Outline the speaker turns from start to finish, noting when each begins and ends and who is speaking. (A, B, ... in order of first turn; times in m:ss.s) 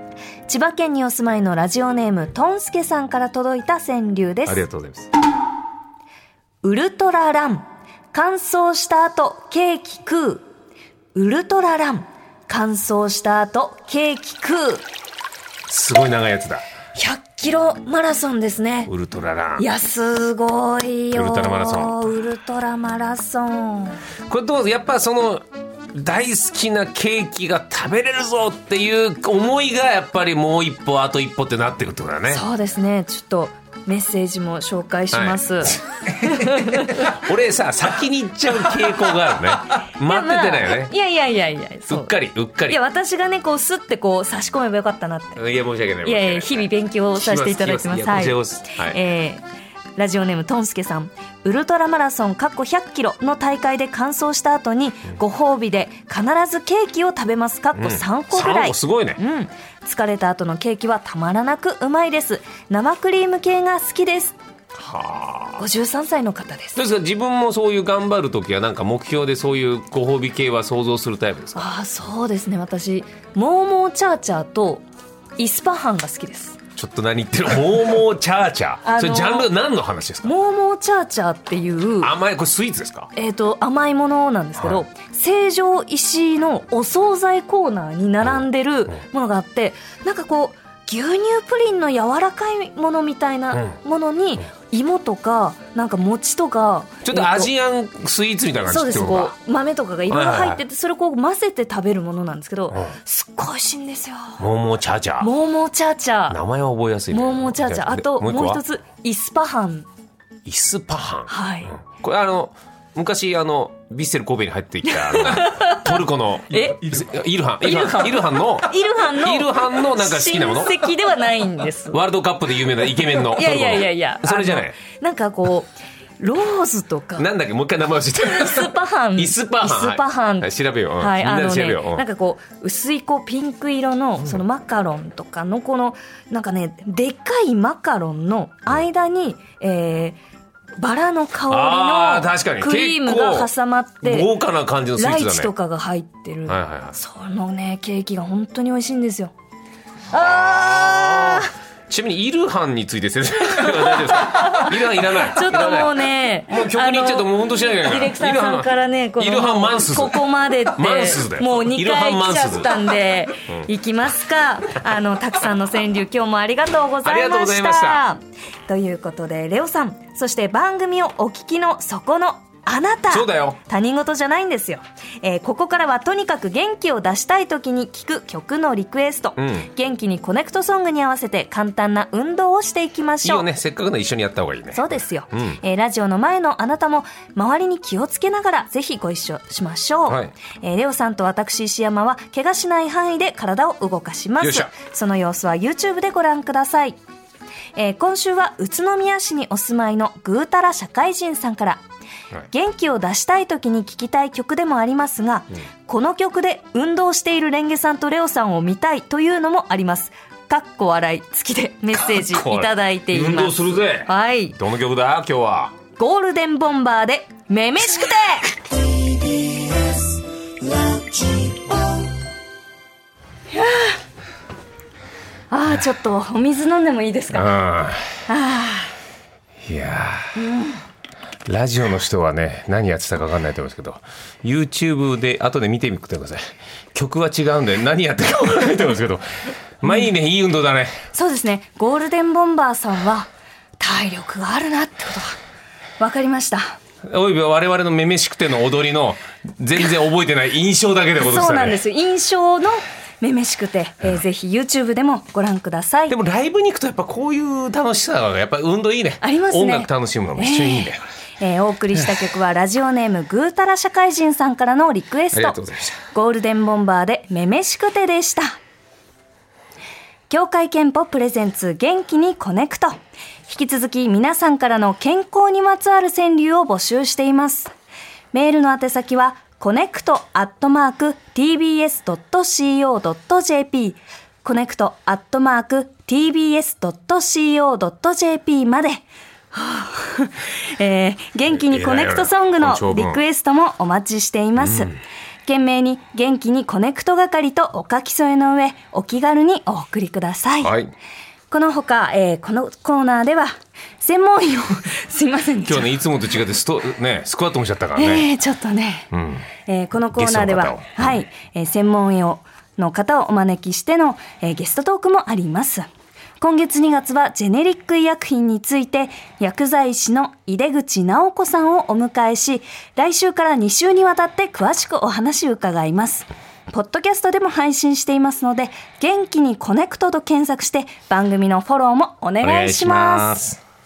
0:00.5-0:04.7 A
0:04.4-0:05.1 B
0:06.6-0:10.4 A
0:11.1-0:14.9 A
0:15.7-0:16.6 B
0:16.9-0:18.9 A
0:18.9-0:19.7 B
0:19.6-0:24.0 A
0:21.1-0:22.0 B
0:24.3-0:32.4 B
0:32.3-0:37.1 A
0:35.1-0:40.9 B
0:40.0-0:42.2 A
0:41.9-0:42.8 B
0:42.7-0:45.4 A
0:45.4-0:49.0 B
0:46.0-0:49.4 A
0:50.0-1:04.4 A
0:57.8-0:59.2 B
1:04.8-1:05.6 B
1:05.6-1:06.8 A
1:06.8-1:11.7 B
1:11.6-1:14.8 A
1:15.4-1:16.6 A
1:16.8-1:20.4 B
1:18.8-1:19.5 A
1:20.2-1:22.1 A
1:22.0-1:23.1 B
1:23.1-1:37.5 A
1:24.6-1:24.8 B
1:37.0-1:39.4 B
1:38.6-1:44.5 A
1:40.1-1:40.6 B
1:44.4-1:45.3 B
1:45.2-1:46.4 A
1:46.3-1:48.6 B
1:47.1-1:49.9 A
1:50.4-2:00.9 B
1:51.3-1:51.8 A
1:54.9-1:56.9 A
1:57.6-2:02.0 A
2:01.9-2:04.8 B
2:03.0-2:07.3 A
2:07.2-2:12.1 B
2:08.1-2:20.2 A
2:20.8-2:24.3 A
2:21.5-2:25.5 B
2:25.0-2:29.3 A
2:26.5-2:27.0 B
2:30.1-2:31.5 A
2:30.1-2:40.2 B
2:33.5-3:03.5 A
2:40.8-2:42.9 B
2:47.0-2:48.0 B
2:53.1-2:53.6 B
2:59.4-2:59.7 B
3:03.2-3:05.6 B
3:04.7-3:17.0 A
3:10.1-3:10.3 B
3:14.4-3:14.7 B
3:17.8-3:21.8 A
3:22.5-3:34.6 A
3:31.9-3:35.7 B
3:36.0-3:38.6 A
3:43.5-3:44.0 A
3:45.5-3:47.6 A
3:47.3-3:48.1 B
3:48.3-3:48.9 A
3:49.6-3:50.3 B
3:50.3-3:50.8 A
3:51.4-3:56.4 B
3:56.9-3:59.3 B
3:59.8-4:01.0 B
4:01.1-4:05.4 A
4:06.0-4:06.8 A
4:07.1-4:11.8 B
4:11.2-4:16.2 A
4:16.1-4:21.0 B
4:19.2-4:25.6 A
4:25.3-4:26.0 B
4:26.1-4:28.6 A
4:30.3-4:37.7 A
4:38.3-5:00.8 A
4:51.5-4:53.2 B
4:54.6-4:54.9 B
5:00.6-5:00.9 B
5:01.5-5:05.9 A
5:05.6-5:08.3 B
5:08.0-5:09.1 A
5:09.1-5:09.4 B
5:09.7-5:15.8 A
5:10.1-5:11.2 B
5:16.4-5:33.4 A
5:32.4-5:33.6 B